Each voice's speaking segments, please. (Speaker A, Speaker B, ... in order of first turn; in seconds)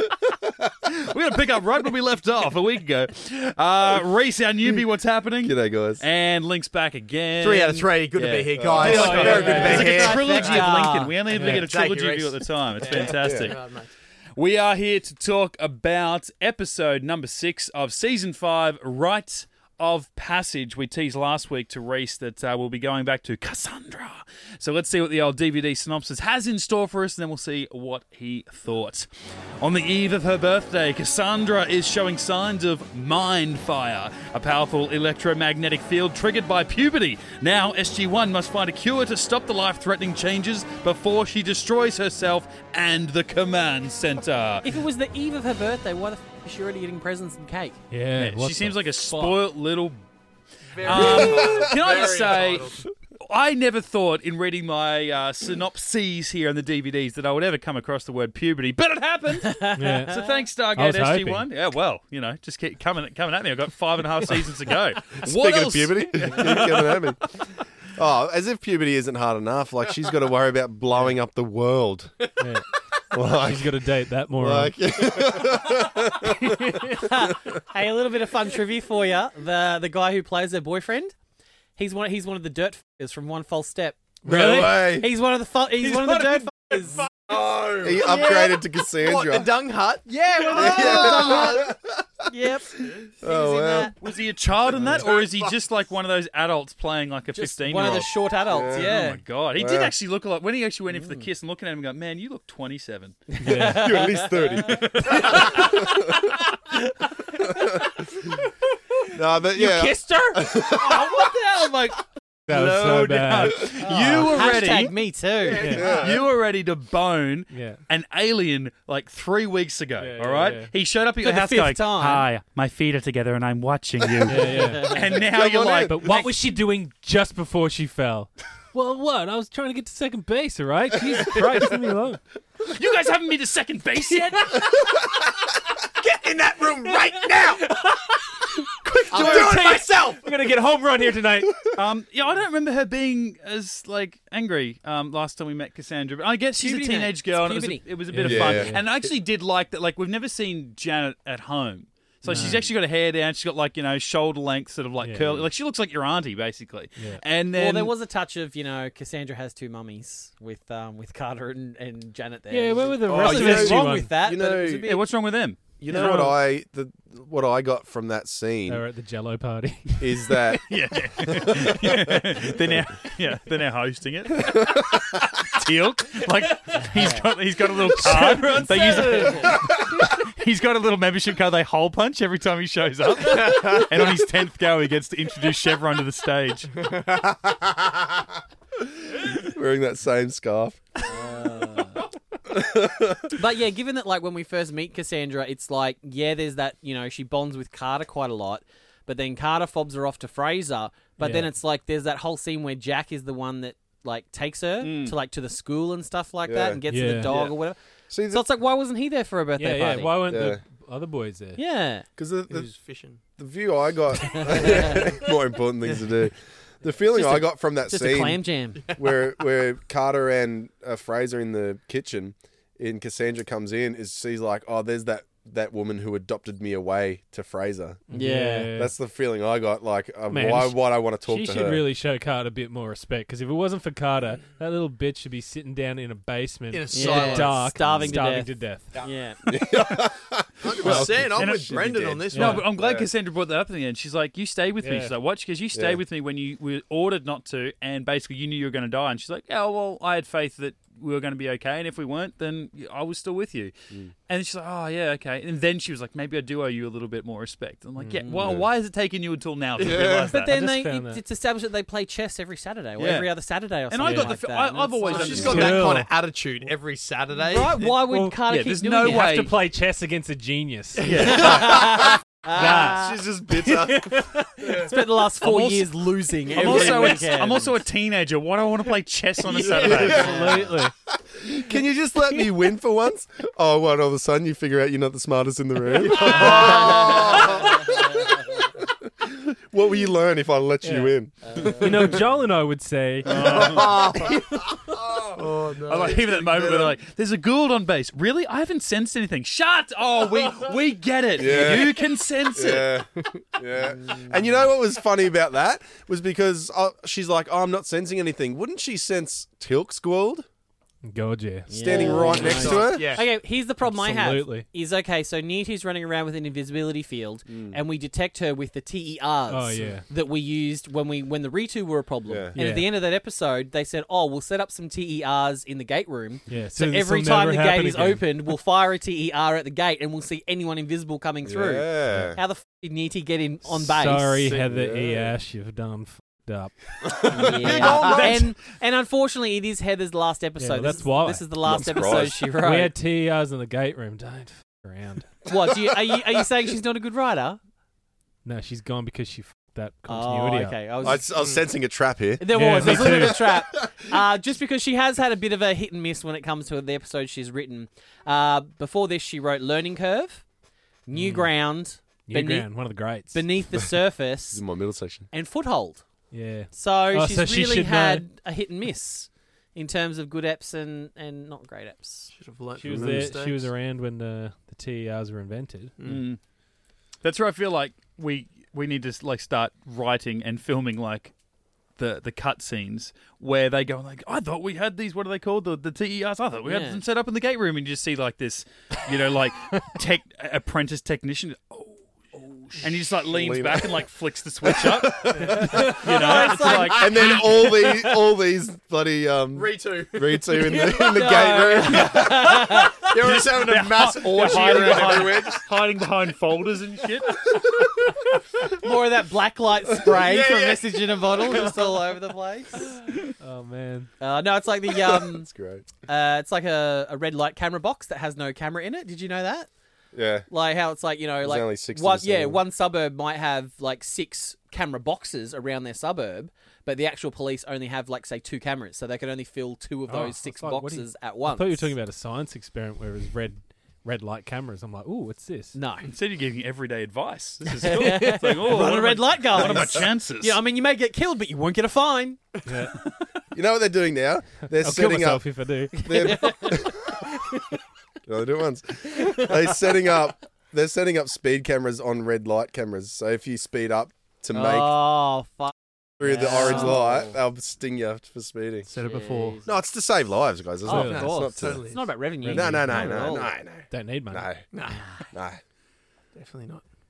Speaker A: 0.8-13.6, 14.4-29.1, 29.6-44.7, 48.2-50.0, 50.8-66.8, 94.0-103.2, 110.6-115.0, 115.7-126.3, 132.6-134.7, 141.7-157.9, 164.8-166.4, 170.7-186.8, 204.8-205.2, 240.8-253.7, 254.3-260.6, 263.0-263.3, 263.9-265.8, 268.5-269.5, 271.0-271.8, 275.4-275.9, 276.5-280.4, 293.2-294.1, 295.8-302.9, 337.8-338.5, 376.0-376.4, 377.2-381.3, 382.0-397.3, 403.0-407.4, 436.1-440.6
Speaker B: 5.4-6.0, 8.6-9.1, 13.0-13.5, 51.0-51.8, 65.2-67.4, 67.9-72.3, 73.1-77.6, 84.2-85.1, 87.8-89.5, 90.5-92.0, 93.2-93.9, 98.5-99.0, 99.6-99.9, 103.5-106.3, 107.4-108.0, 109.1-111.2, 115.6-116.3, 125.0-126.3, 148.2-148.8, 163.1-164.9, 165.8-168.8, 170.0-172.7, 174.4-175.3, 187.5-187.9, 189.2-190.8, 192.5-193.4, 206.4-207.4, 208.1-208.4, 210.2-210.6, 212.2-212.7, 213.4-218.4, 218.9-228.1, 228.7-231.8, 237.9-238.1, 239.4-243.1, 245.7-246.0, 258.3-258.7, 259.8-260.3, 279.7-288.4, 289.2-292.2, 293.7-294.9, 295.5-296.9, 301.4-302.0, 302.6-310.4, 311.7-313.2, 317.5-317.8, 322.3-322.6, 331.4-332.4, 334.5-335.4, 337.0-338.2, 341.6-342.5, 351.0-354.1, 364.5-365.3, 372.8-373.4, 393.2-394.0, 394.6-396.0, 396.8-402.5, 415.2-415.9, 420.1-420.5, 421.4-422.6, 443.5-447.2, 448.2-455.0, 456.2-458.9, 459.6-461.9, 462.4-464.6, 465.3-465.6
Speaker C: 7.4-10.7, 11.3-13.9, 50.7-52.9, 87.1-88.4, 89.0-91.6, 92.8-93.1, 94.8-95.5, 115.5-116.0, 136.0-137.7, 139.1-140.3, 183.2-184.0, 186.8-187.3, 212.5-213.2, 218.9-219.2, 236.7-237.7, 240.6-242.7, 265.1-267.8, 271.1-274.2, 286.0-287.8, 293.4-294.4, 295.1-296.3, 312.2-313.3, 337.5-338.5, 351.3-351.6, 372.3-373.7, 376.0-376.3, 395.4-395.9, 399.5-400.7, 402.0-405.6, 410.1-411.9, 458.9-459.6, 461.0-462.2, 464.7-465.1, 466.3-466.8
Speaker D: 8.8-9.9, 11.3-11.7, 47.9-49.2, 59.8-60.2, 60.8-61.5, 72.4-72.7, 73.2-74.8, 76.5-76.9, 84.3-84.8, 103.4-103.9, 109.8-110.1, 112.5-114.3, 115.6-115.9, 117.5-117.8, 120.0-120.7, 124.2-125.2, 125.8-132.2, 137.4-141.7, 148.1-148.8, 152.3-152.6, 155.0-155.5, 162.5-164.1, 165.9-166.3, 168.7-172.6, 177.8-179.8, 201.2-201.5, 206.9-207.3, 209.6-211.6, 228.1-228.9, 230.3-239.0, 242.3-242.7, 244.8-245.1, 260.0-261.2, 264.0-264.4, 265.3-266.1, 268.1-268.4, 269.0-271.9, 272.5-274.4, 279.8-280.9, 290.8-294.4, 311.1-312.6, 313.8-314.7, 319.5-320.1, 322.6-322.9, 326.5-328.2, 333.7-337.5, 340.6-341.8, 342.6-345.4, 348.4-350.8, 352.5-353.4, 361.1-361.5, 362.3-363.4, 366.3-368.2, 372.8-375.9, 413.4-414.1, 430.1-435.8, 442.6-443.0, 444.7-446.7, 460.9-461.2, 462.4-464.5
Speaker E: 8.9-11.2, 44.6-47.8, 50.9-51.5, 59.4-60.4, 77.0-81.1, 81.8-87.1, 88.0-88.6, 90.1-91.7, 92.3-93.9, 97.3-99.2, 100.9-101.3, 103.3-107.9, 109.5-110.6, 113.8-115.8, 121.2-122.3, 124.5-125.1, 139.1-139.8, 146.5-147.8, 157.5-165.1, 176.9-177.3, 178.8-179.7, 191.1-192.0, 193.3-210.3, 211.6-212.1, 214.3-215.0, 217.1-218.8, 228.1-228.7, 236.9-239.6, 258.2-258.6, 260.3-265.8, 267.4-269.4, 271.3-277.8, 279.7-280.8, 286.4-288.3, 291.4-292.1, 303.8-304.4, 311.7-334.6, 337.3-342.9, 345.4-347.6, 350.1-351.3, 352.4-360.4, 361.1-364.6, 365.3-366.1, 366.7-372.3, 386.7-387.0, 395.6-398.1, 400.7-403.1, 404.5-405.1, 408.6-413.0, 414.2-415.5, 416.1-419.7, 420.5-431.9, 435.8-436.1, 437.7-442.6, 446.1-446.9, 454.5-457.4, 459.0-459.8, 460.9-463.5